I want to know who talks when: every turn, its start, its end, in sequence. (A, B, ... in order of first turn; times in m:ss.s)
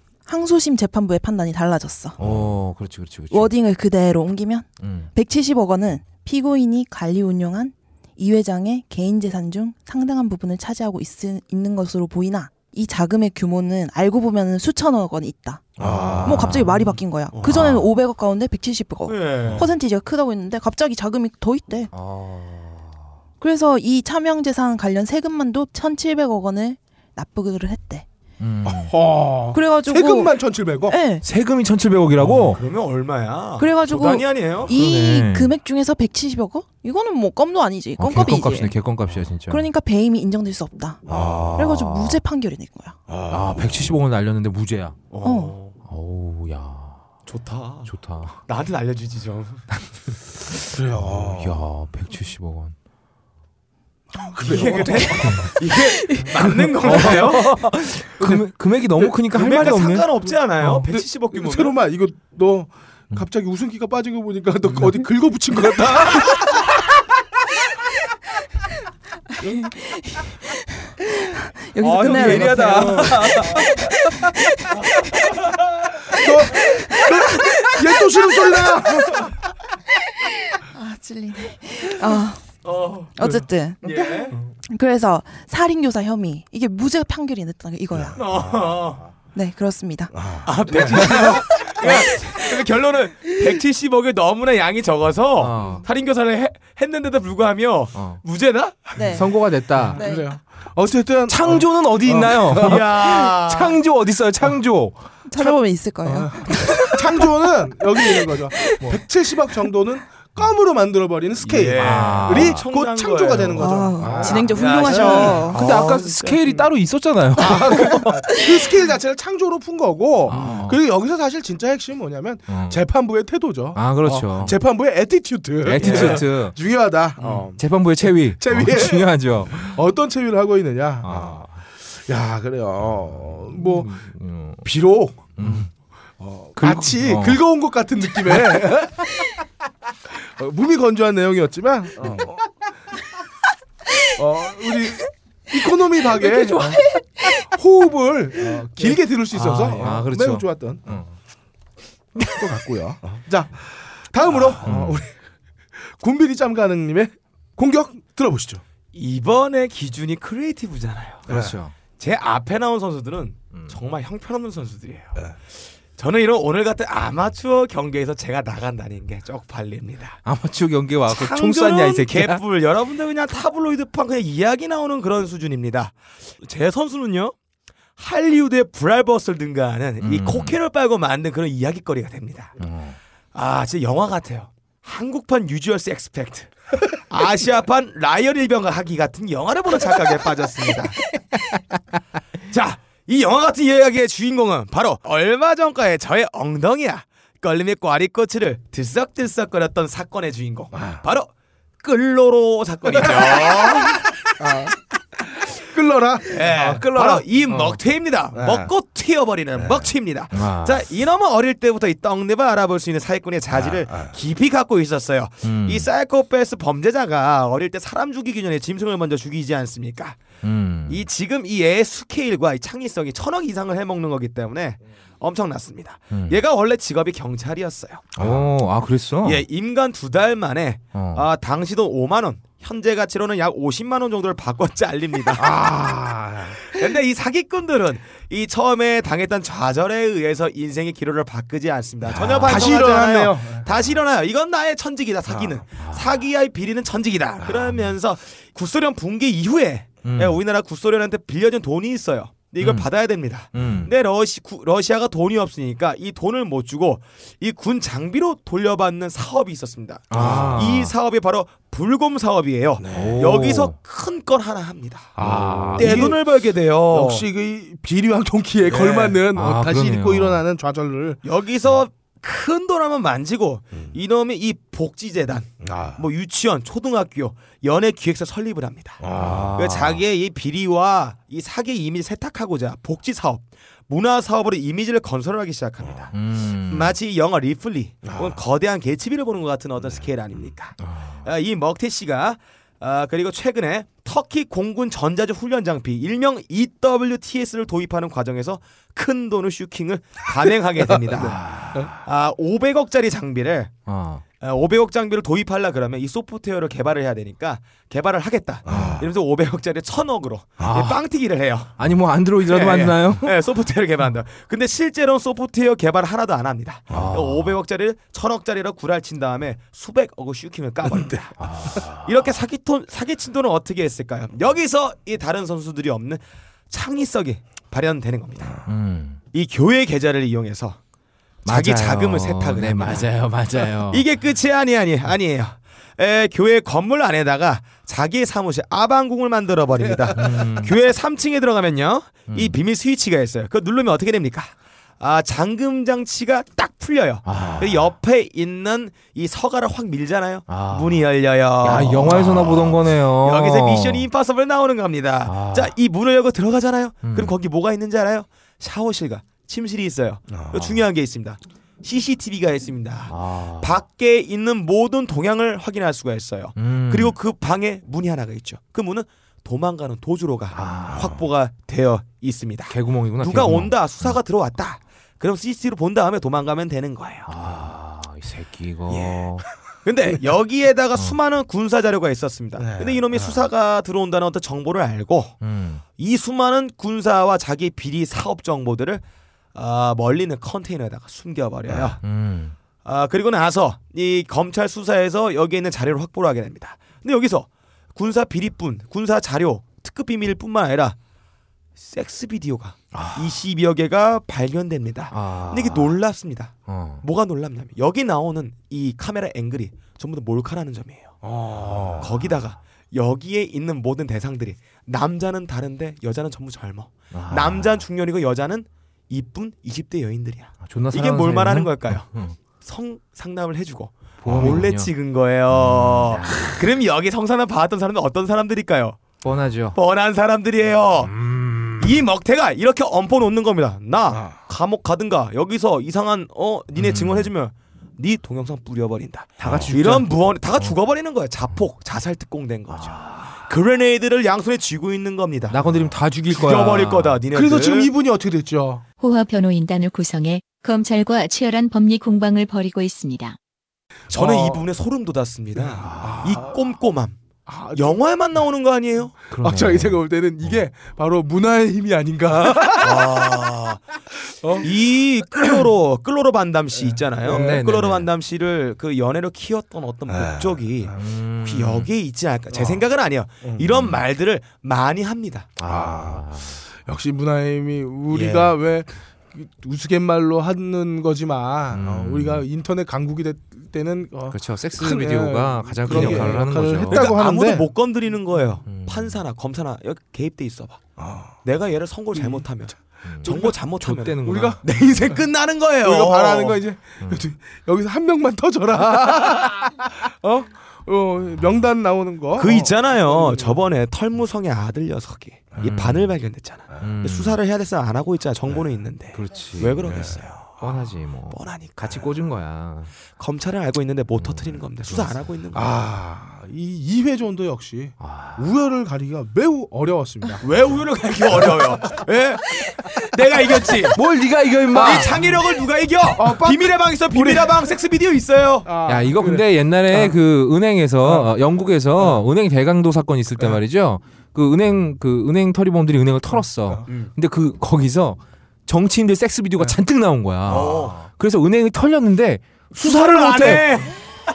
0:00.2-0:02.2 A
0:02.2-0:03.5 B
0:02.2-0:02.4 C
0:03.3-0:15.7 A
0:04.8-0:05.1 B
0:15.8-0:17.9 B
0:15.8-0:16.5 C
0:16.2-0:21.9 A
0:17.3-0:17.7 D
0:19.0-0:19.7 D
0:21.9-0:23.1 B
0:23.4-0:28.0 A
0:28.4-0:28.9 B
0:28.6-0:31.0 C
0:29.5-0:31.2 A
0:31.2-0:32.6 B
0:32.2-0:34.7 D
0:33.6-0:38.7 A
0:34.7-0:35.5 B
0:38.0-0:39.6 B
0:39.5-0:41.0 A
0:41.0-0:41.6 C
0:41.0-0:42.2 B
0:41.6-0:43.0 A
0:43.1-0:43.9 C
0:43.3-0:45.0 B
0:45.1-0:45.8 D
0:45.2-0:45.5 A
0:45.8-0:47.0 B
0:47.2-0:49.6 D
0:47.9-0:48.3 B
0:50.7-0:51.6 C
0:50.7-0:52.7 B
0:54.1-0:55.5 C
0:54.4-0:57.6 D
0:55.2-0:55.5 B
0:55.8-0:56.2 A
0:56.6-1:00.8 B
0:59.0-0:59.6 C
0:59.3-1:01.8 D
1:00.9-1:06.7 C
1:09.4-1:14.7 A
1:11.8-1:13.7 B
1:11.9-1:13.8 D
1:12.2-1:13.2 C
1:14.7-1:15.6 D
1:16.1-1:19.4 C
1:16.2-1:18.7 A
1:20.2-1:22.4 A
1:22.6-1:23.2 D
1:23.2-1:24.1 A
1:23.8-1:24.4 D
1:24.7-1:28.2 A
1:28.1-1:29.1 D
1:29.3-1:30.1 A
1:30.1-1:31.4 C
1:30.4-1:39.1 D
1:31.1-1:32.0 A
1:35.4-1:35.8 B
1:37.9-1:38.2 B
1:39.0-1:39.3 A
1:39.1-1:40.0 B
1:39.8-1:42.8 C
1:39.9-1:40.4 A
1:41.3-1:45.6 B
1:42.6-1:43.8 D
1:45.3-1:47.3 A
1:46.0-1:55.4 C
1:47.9-1:49.0 A
1:51.4-1:56.6 D
1:51.8-1:52.6 B
1:53.6-1:55.6 A
1:55.3-1:58.1 B
1:57.4-2:07.6 C
1:57.8-1:58.7 A
2:00.2-2:00.8 B
2:02.5-2:02.8 B
2:03.7-2:04.6 B
2:05.6-2:06.6 B
2:05.8-2:06.2 D
2:07.2-2:09.8 B
2:08.2-2:13.9 C
2:11.0-2:11.5 B
2:13.1-2:14.6 B
2:14.6-2:15.7 C
2:15.4-2:15.7 B
2:16.2-2:19.1 C
2:16.6-2:17.4 B
2:18.2-2:18.6 B
2:20.1-2:22.5 C
2:22.0-2:22.3 B
2:24.2-2:26.8 C
2:24.6-2:24.9 A
2:26.2-2:27.4 A
2:27.4-2:31.0 C
2:28.8-2:30.0 D
2:29.6-2:31.1 B
2:32.2-2:35.1 C
2:34.5-2:35.0 B
2:35.9-2:38.6 C
2:38.9-2:41.3 D
2:41.3-2:41.7 B
2:41.3-2:41.5 C
2:42.0-2:45.2 D
2:45.9-2:50.2 D
2:50.2-2:52.4 B
2:51.1-2:57.3 D
2:58.0-3:02.6 D
3:00.0-3:00.6 B
3:02.6-3:03.0 B
3:03.3-3:11.0 D
3:12.5-3:21.3 D
3:20.7-3:21.0 C
3:21.8-3:24.1 D
3:24.4-3:24.7 C
3:25.3-3:27.8 C
3:26.3-3:40.2 D
3:28.3-3:28.7 C
3:30.3-3:30.8 B
3:35.4-3:35.9 B
3:40.4-3:41.0 B
3:40.9-3:48.1 D
3:46.1-3:46.4 B
3:48.2-3:49.4 B
3:49.2-3:55.6 D
3:50.9-3:51.2 B
3:55.4-3:56.7 C
3:56.6-4:25.2 D
4:02.4-4:03.7 C
4:05.8-4:06.2 B
4:10.0-4:10.4 B
4:12.6-4:12.9 B
4:13.5-4:13.9 B
4:20.1-4:20.9 B
4:20.1-4:20.6 C
4:22.8-4:23.2 C
4:22.9-4:23.8 B
4:25.2-4:26.3 C
4:25.2-4:26.2 B
4:25.7-4:27.3 D
4:26.9-4:31.2 C
4:28.6-4:29.2 D
4:29.3-4:30.4 B
4:31.2-4:46.1 D
4:35.6-4:36.0 C
4:39.0-4:39.5 C
4:39.1-4:40.0 B
4:46.1-4:46.9 B
4:46.6-5:01.4 D
4:48.0-4:48.4 C
4:50.8-4:51.2 B
5:01.1-5:02.0 B
5:01.1-5:01.9 C
5:01.9-5:03.7 D
5:03.8-5:04.2 B
5:04.4-5:11.7 D
5:08.6-5:09.0 C
5:08.7-5:09.0 B
5:10.6-5:11.0 B
5:11.8-5:13.3 B
5:12.4-5:28.6 D
5:16.9-5:17.6 B
5:21.4-5:22.1 B
5:28.6-5:29.2 B
5:29.3-5:30.8 D
5:31.4-5:34.0 B
5:31.4-5:33.1 D
5:33.8-6:17.3 D
5:40.1-5:40.7 B
5:42.3-5:42.6 B
5:47.2-5:47.9 B
5:50.5-5:51.0 B
5:51.6-5:54.0 B
5:55.2-5:55.7 B
5:57.0-5:57.4 B
6:00.3-6:00.5 C
6:00.5-6:00.8 B
6:03.1-6:03.7 B
6:06.6-6:07.2 B
6:10.5-6:11.2 B
6:12.7-6:14.2 B
6:17.3-6:19.4 B
6:18.9-6:19.2 D
6:19.8-6:25.4 D
6:22.6-6:23.4 C
6:25.4-6:25.8 B
6:26.0-6:29.0 D
6:29.5-6:32.0 D
6:32.0-6:32.5 B
6:32.8-6:41.0 D
6:41.8-6:51.2 D
6:42.9-6:43.4 B
6:45.1-6:46.0 B
6:46.7-6:47.0 B
6:51.2-6:52.1 C
6:51.6-6:52.1 B
6:52.0-7:09.0 D
6:57.1-6:57.8 B
7:00.6-7:02.4 B
7:04.2-7:04.9 B
7:05.5-7:06.6 B
7:09.2-7:09.8 B
7:09.7-7:11.2 D
7:11.1-7:12.0 B
7:11.8-7:25.7 D
7:16.8-7:17.3 B
7:19.4-7:19.7 C
7:19.4-7:20.7 B
7:22.7-7:23.3 B
7:25.5-7:27.2 B
7:26.3-7:27.9 D
7:27.3-7:28.8 C
7:29.0-7:33.4 E
7:34.1-7:37.2 D
7:34.1-7:34.6 C
7:35.8-7:36.4 B
7:36.0-7:36.5 C
7:37.5-7:38.0 C
7:37.7-7:39.1 D
7:39.3-7:40.6 B
7:39.4-7:43.2 C
7:42.8-7:43.8 D
7:44.4-7:44.7 C
7:44.6-7:55.5 D
7:46.8-7:47.6 C
7:47.2-7:48.1 B
7:50.1-7:50.9 C
7:50.9-7:51.9 B
7:52.5-7:52.8 C
7:53.7-7:54.0 B
7:55.6-7:56.6 B
7:55.7-7:56.2 C
7:56.8-8:07.7 C
7:58.1-7:58.6 D
8:01.7-8:02.5 B
8:04.3-8:07.2 B
8:05.9-8:10.8 D
8:08.7-8:09.2 B
8:11.0-8:11.3 C
8:11.4-8:16.6 D
8:13.1-8:14.6 B
8:13.2-8:13.5 C
8:14.2-8:14.6 C
8:15.8-8:23.6 C
8:22.4-8:30.6 D
8:25.6-8:26.2 B
8:26.8-8:27.4 B
8:29.1-8:32.9 B
8:29.9-8:30.2 C
8:31.3-8:32.1 D
8:33.2-8:35.8 D
8:34.1-8:35.2 B
8:35.5-8:40.4 C
8:38.0-8:38.5 B
8:40.4-8:44.0 D
8:43.8-8:45.4 B
8:44.7-8:45.1 C
8:44.7-8:48.7 D
8:46.1-8:47.6 C
8:48.6-8:50.2 C
8:48.8-9:03.6 B
8:51.0-8:51.3 C
9:00.5-9:01.0 D
9:02.7-9:04.0 D